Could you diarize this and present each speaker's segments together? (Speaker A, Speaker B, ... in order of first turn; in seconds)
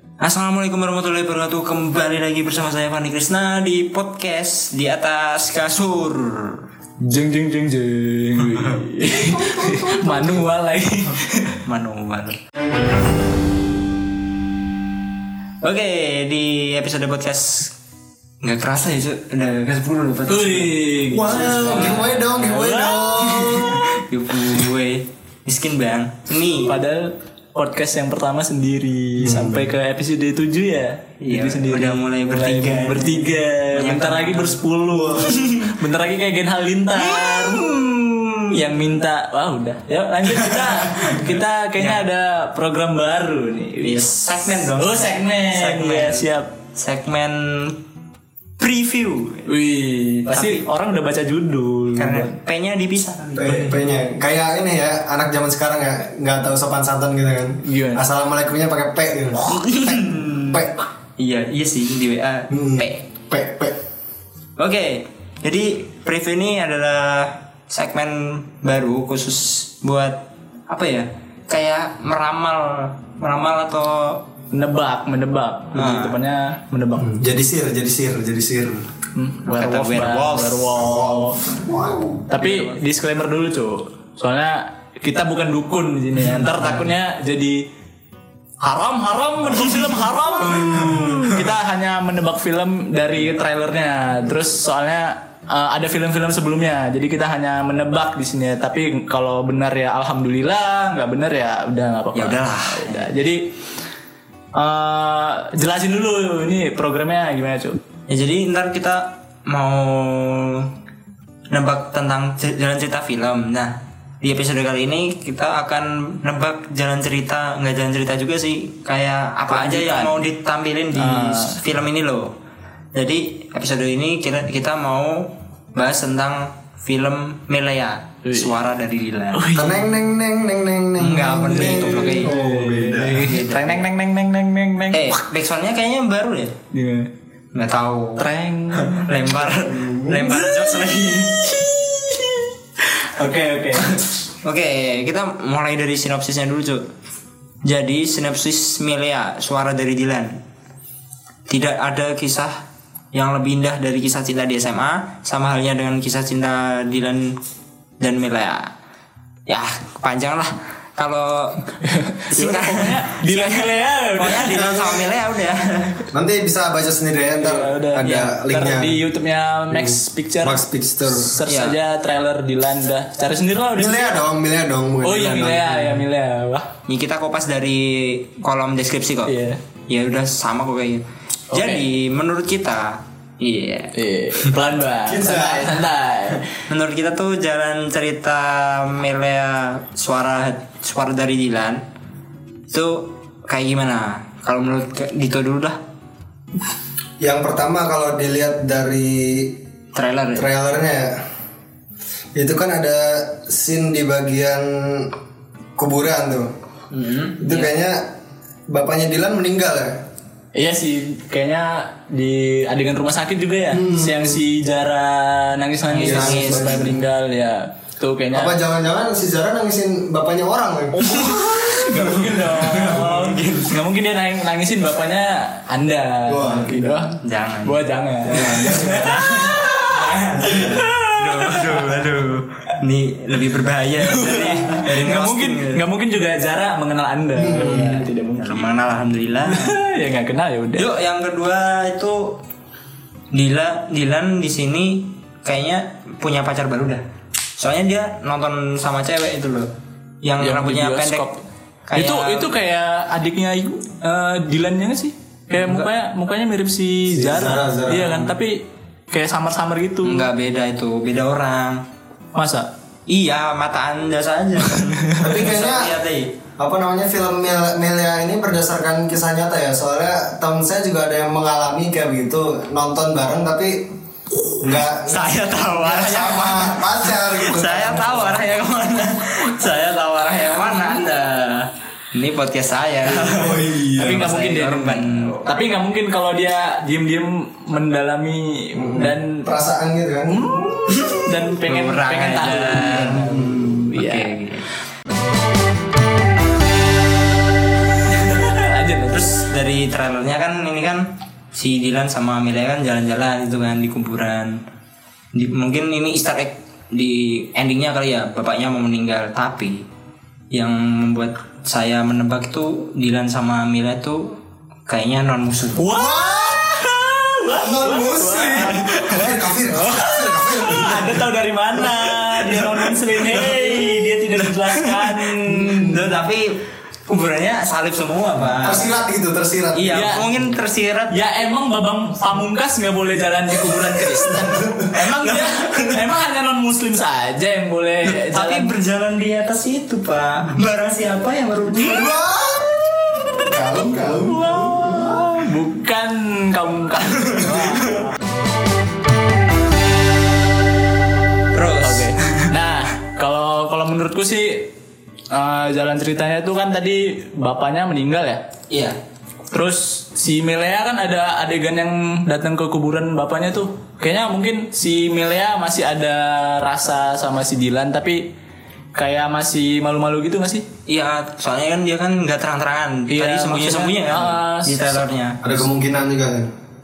Speaker A: 0.2-6.6, 11.6-12.4, 15.6-17.7, 18.4-26.8, 31.2-35.7, 37.0-38.6, 40.4-42.0, 43.8-47.8, 48.6-49.5, 50.3-50.6, 52.0-53.8, 59.4-60.6, 61.2-63.0, 64.6-74.2, 75.7-76.2, 79.4-80.8, 82.4-82.7, 90.6-91.5, 102.1-103.2, 108.1-110.7, 111.5-122.3, 122.9-129.4, 131.0-132.3, 133.1-133.8, 134.9-136.5, 137.5-141.6, 144.4-146.8, 147.6-150.4, 151.5-152.5, 153.1-157.3, 158.0-158.6, 159.5-161.6, 162.3-166.0, 168.0-168.3, 171.5-171.8, 176.9-179.3, 179.9-183.9, 186.7-191.8, 192.7-195.8, 199.9-200.4, 206.9-207.7, 215.9-217.0, 221.0-223.8, 227.2-227.8, 228.8-235.8, 237.6-239.8, 240.8-242.4, 243.3-247.0, 247.6-249.7, 250.2-251.2, 251.9-252.5, 255.5-255.9, 260.1-261.8, 263.1-266.3, 274.6-285.4, 290.9-294.6, 299.1-304.6, 305.3-309.9, 310.5-314.4, 314.9-315.9, 318.7-319.2, 322.0-326.5, 327.1-328.9, 329.7-331.2, 335.0-336.1, 338.1-342.1, 347.2-348.0, 351.5-352.5, 358.7-358.9, 370.9-375.4
Speaker B: 7.0-11.6, 20.3-22.9, 26.6-37.6, 38.5-46.5, 49.5-52.4, 57.6-58.0, 74.5-77.1, 79.1-81.5, 82.3-87.6, 88.6-103.5, 104.5-107.8, 119.5-120.2, 120.9-121.6, 128.2-128.5, 129.3-129.9, 131.5-135.2, 136.7-137.1, 138.2-139.3, 140.3-142.4, 143.2-144.0, 161.8-164.6, 167.4-174.1, 175.0-176.7, 179.2-179.6, 181.5-181.8, 183.9-186.4, 210.6-218.6, 220.9-231.9, 234.0-238.8, 239.4-240.9, 250.4-251.4, 251.9-260.3, 262.3-262.7, 283.9-289.5, 290.3-294.3, 298.1-299.4, 315.8-325.9, 329.9-330.3, 331.1-338.8, 344.2-348.2, 351.8-354.7, 355.3-358.4, 359.5-368.3, 368.9-370.7, 373.1-375.0
Speaker C: 9.1-10.4, 21.1-23.8, 29.2-29.7, 53.4-60.7, 62.5-63.8, 77.0-78.8, 80.8-82.3, 90.5-91.0, 129.5-133.2, 139.6-140.3, 164.5-165.1, 166.1-169.0, 169.7-171.3, 173.7-176.0, 185.1-185.9, 197.2-199.6, 200.3-201.1, 202.3-205.1, 205.8-206.5, 207.4-208.0, 208.7-210.0, 213.7-214.4, 216.0-217.0, 218.3-221.4, 226.3-227.1, 228.2-229.1, 230.3-230.8, 237.4-238.0, 257.1-258.4, 265.2-265.9, 266.6-273.9, 274.6-278.4, 283.0-284.3, 288.8-290.7, 293.1-293.9, 315.9-316.8, 317.5-321.2, 328.6-330.1, 334.3-334.8, 341.8-342.8, 343.4-345.3, 375.4-376.5